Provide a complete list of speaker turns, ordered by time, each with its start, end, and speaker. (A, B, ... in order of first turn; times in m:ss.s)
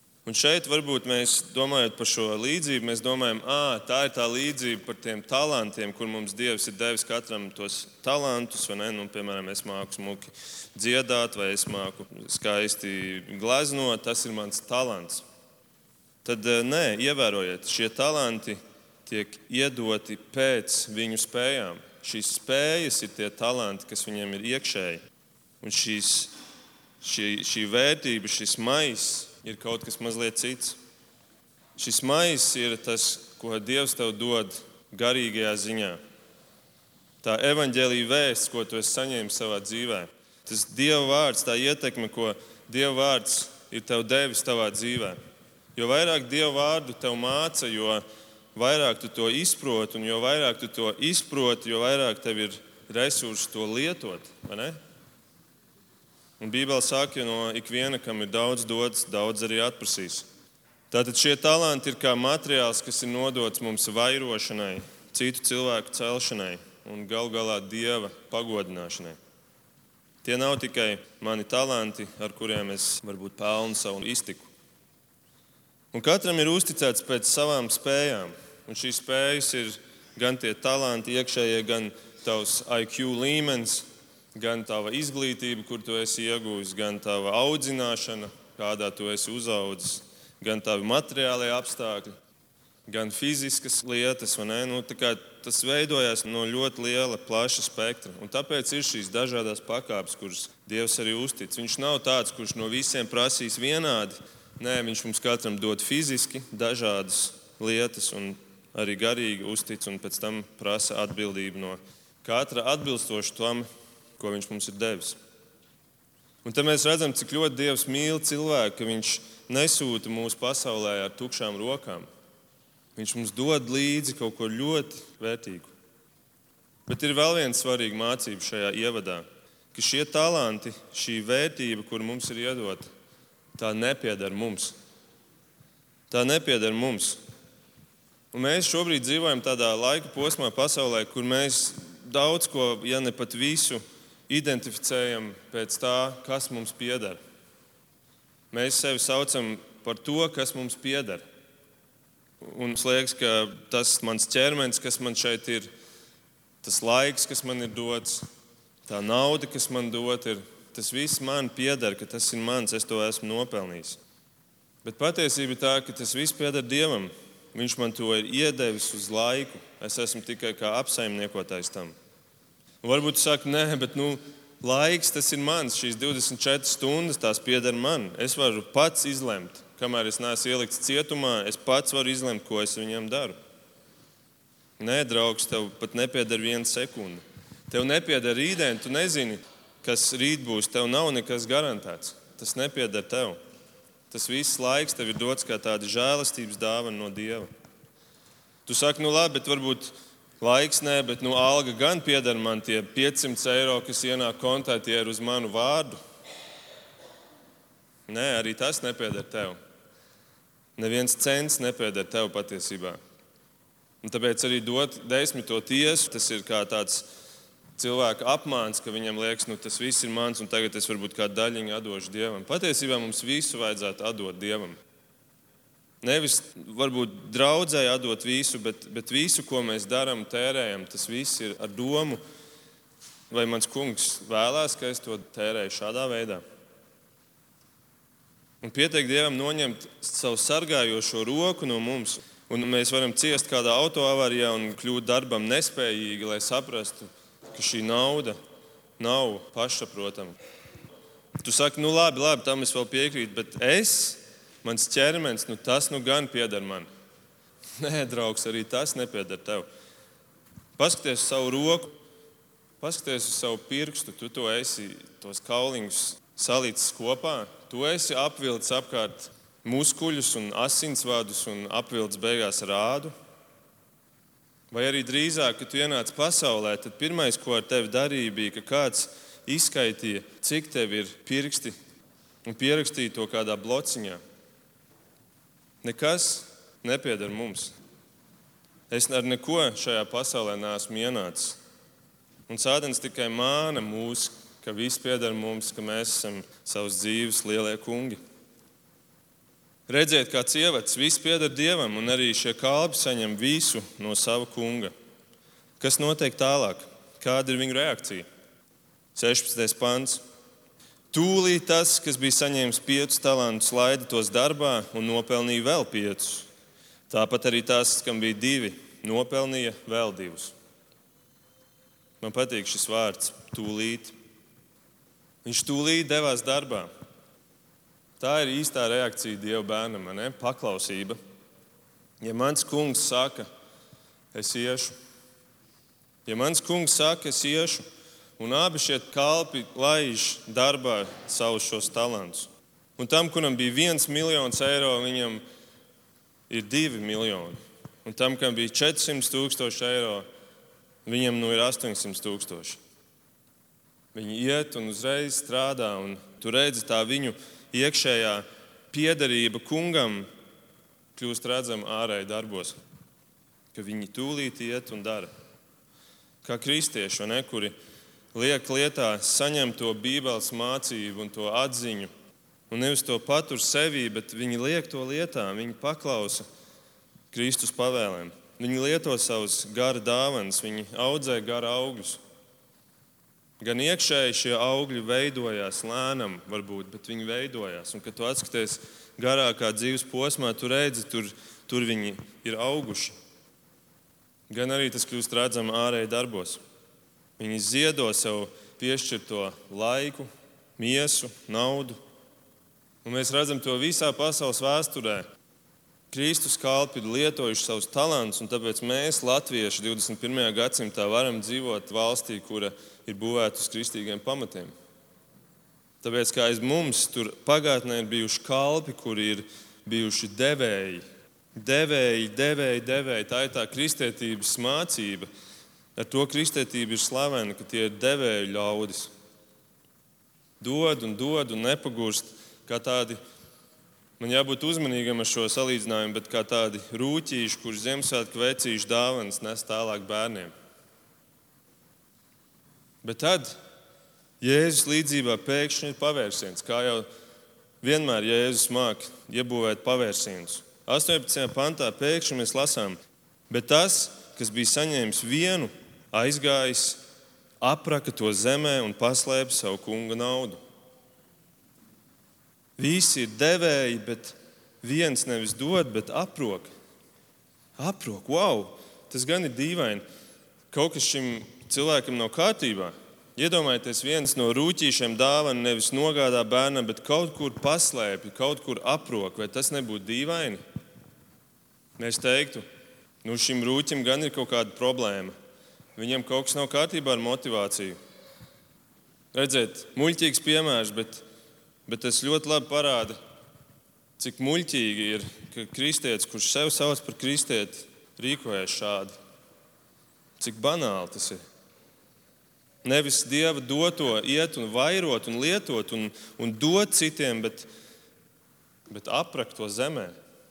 0:00.2-0:15.2 A
0:16.2-0:25.0 A
0:25.6-0:26.3 A
0:27.0-0:30.8 A
0:31.8-0:36.0 A
0:37.2-0:45.2 A
0:45.8-0:48.0 A
0:48.6-0:54.8 A
0:56.4-1:00.3 A
1:00.9-1:09.2 A
1:10.2-1:14.5 A
1:15.9-1:32.1 A
1:32.9-1:53.7 A
1:54.2-1:55.2 A
1:56.4-2:02.1 A
2:03.0-2:05.7 A
2:06.9-2:12.9 A
2:13.6-2:14.8 A
2:16.1-2:17.2 A
2:18.3-2:27.2 A
2:28.5-2:31.2 A
2:32.4-2:35.7 A
2:36.6-2:38.3 A
2:38.9-2:44.0 A
2:44.8-2:52.0 A
2:52.8-3:03.4 A
3:04.8-3:13.4 A
3:14.1-3:17.5 A
3:18.7-3:26.0 A
3:28.1-3:29.6 A
3:30.8-3:33.0 A
3:34.0-3:37.1 A
3:37.8-3:44.8 A
3:46.0-3:52.2 A
3:53.3-3:56.4 A
3:58.6-4:08.4 A
4:09.0-4:10.4 A
4:11.4-4:16.9 A
4:17.8-4:19.7 A
4:20.8-4:21.9 A
4:22.8-4:33.1 A
4:34.7-4:41.8 A
4:42.4-4:44.2 A
4:45.8-4:47.7 A
4:48.9-4:51.6 A
4:52.5-4:58.2 A
4:59.9-5:04.9 A
5:05.8-5:08.3 A
5:09.2-5:10.2 A
5:11.1-5:16.5 A
5:17.1-5:20.6 A
5:22.2-5:24.2 A
5:25.4-5:26.9 A
5:28.2-5:31.2 A
5:32.2-5:33.5 A
5:34.3-5:35.0 A
5:36.3-5:37.8 A
5:38.4-5:45.4 A
5:46.5-5:50.3 A
5:51.0-5:52.8 A
5:54.1-6:00.3 A
6:01.2-6:02.8 A
6:03.7-6:05.3 A
6:06.4-6:07.8 A
6:08.3-6:12.1 A
6:12.7-6:16.4 A
6:17.3-6:22.2 A
6:23.6-6:33.2 A
6:34.5-6:36.6 A
6:37.4-6:42.0 A
6:43.0-6:45.3 A
6:46.1-6:54.7 A
6:56.0-7:01.0 A
7:01.6-7:05.3 A
7:06.0-7:09.1 A
7:10.6-7:13.2 A
7:14.2-7:20.5 A
7:23.0-7:23.6 A
7:24.4-7:27.1 A
7:27.8-7:33.0 A
7:33.5-7:37.0 A
7:37.6-7:40.6 A
7:42.8-7:46.7 A
7:47.8-7:50.0 A
7:50.7-8:00.6 A
8:02.0-8:02.6 A
8:03.2-8:05.3 A
8:06.0-8:08.0 A
8:09.3-8:11.2 A
8:11.9-8:13.2 A
8:14.2-8:19.2 A
8:20.4-8:21.4 A
8:22.8-8:27.7 A
8:28.9-8:30.2 A